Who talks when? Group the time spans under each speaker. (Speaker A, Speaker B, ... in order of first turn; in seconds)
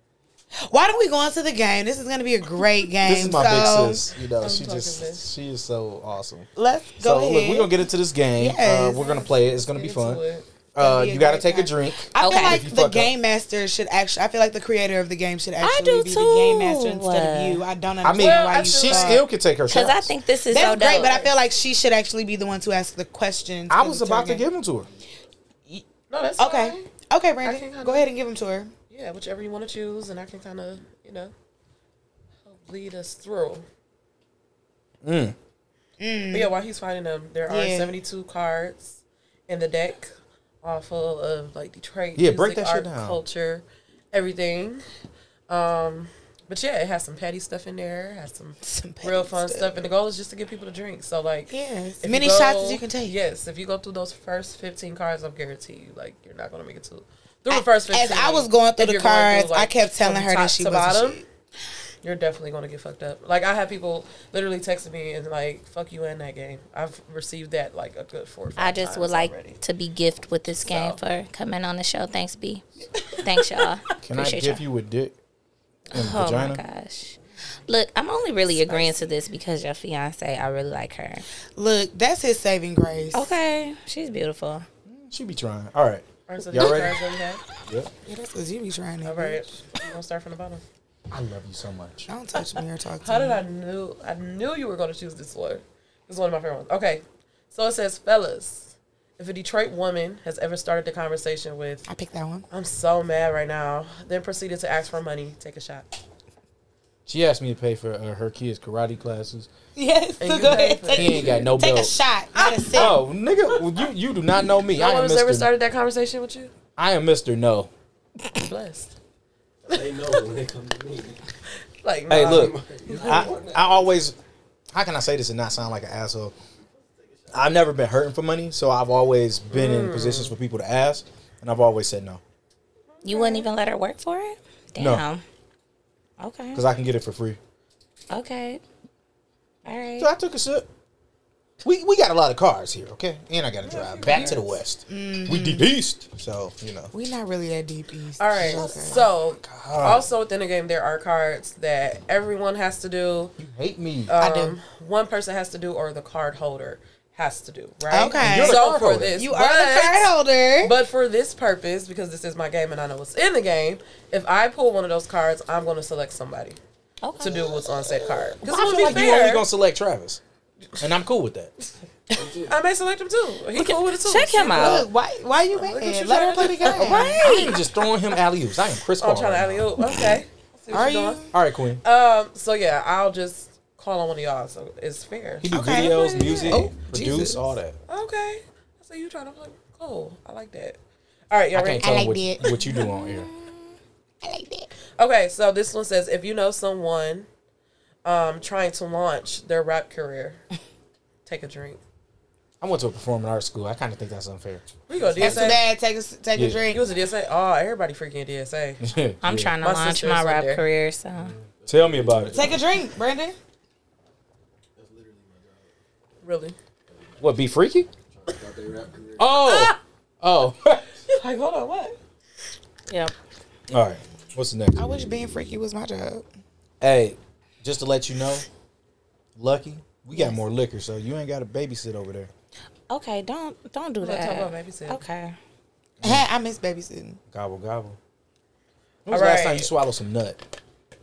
Speaker A: 0.6-4.0, 6.5-7.7, 8.4-9.1, 10.8-19.2, 20.5-24.4, 26.4-28.7, 36.0-36.5, 37.5-37.9, 48.6-49.7, 51.5-53.1, 57.5-61.2, 81.5-83.3, 88.0-89.4, 92.1-93.4, 101.9-102.5, 109.8-113.0, 144.9-145.7, 146.9-149.0, 154.2-154.6, 157.9-160.7, 174.5-177.2, 180.7-181.3, 185.5-187.4, 191.8-192.5, 194.2-194.7, 205.2-206.8, 212.3-213.3, 224.8-226.2, 236.0-237.2
Speaker B: 3.0-6.5, 7.0-10.2, 10.7-13.1, 18.0-20.1, 23.7-24.9, 35.0-35.3, 42.1-43.2, 74.0-75.1, 75.9-76.6, 84.9-87.0, 91.1-92.1, 107.0-109.5, 110.9-111.9, 112.7-115.5, 116.8-117.7, 122.1-124.1, 124.7-126.3, 127.3-132.2, 134.8-135.0, 136.5-137.4, 140.0-140.7, 141.6-146.9, 148.4-150.1, 153.4-154.1, 158.2-159.2, 168.4-170.2, 170.8-171.5, 177.2-179.7, 181.3-181.8, 185.4-187.8, 191.5-193.3, 202.6-205.5, 206.3-206.7, 208.8-209.5, 211.7-212.5, 217.2-217.9, 219.2-220.8, 223.7-224.8, 226.8-228.4, 229.4-232.3, 236.0-236.2, 237.3-238.0, 239.1-240.4
Speaker C: 4.4-5.3, 9.0-10.4, 18.1-19.2, 26.1-26.9, 27.4-28.1, 28.9-31.3, 32.4-33.6, 36.3-44.8, 45.5-61.2, 62.0-69.6, 70.6-71.0, 78.5-79.1, 86.3-87.4, 89.0-90.6, 93.0-101.8, 102.5-105.8, 110.2-111.3, 112.3-113.0, 114.8-116.5, 118.3-118.9, 121.8-123.3, 129.5-130.3, 133.0-133.5, 143.6-144.6, 148.2-153.3, 154.1-166.6, 167.2-169.4, 172.5-174.8, 175.5-177.2, 179.0-181.2, 181.8-186.6, 187.9-190.8, 191.3-192.5, 195.0-197.3, 198.0-200.4, 201.2-201.8, 204.9-205.6, 206.7-208.8, 209.6-210.6, 216.2-216.6, 219.4-219.7, 221.1-221.9, 234.0-235.0, 239.1-239.7
Speaker D: 12.2-12.6, 15.6-17.6, 19.7-21.2, 68.6-74.6, 75.9-81.2, 83.1-84.7, 133.0-135.2, 136.2-136.6, 138.1-138.6, 139.6-140.1, 167.0-167.5, 173.6-174.8, 176.7-177.6, 192.7-193.3, 209.2-211.3, 222.9-223.1, 232.9-235.3
Speaker E: 119.6-121.2, 122.2-123.9, 126.6-127.6, 172.1-172.6, 205.0-205.3, 211.4-212.7, 214.8-215.7, 216.9-217.3, 218.1-219.4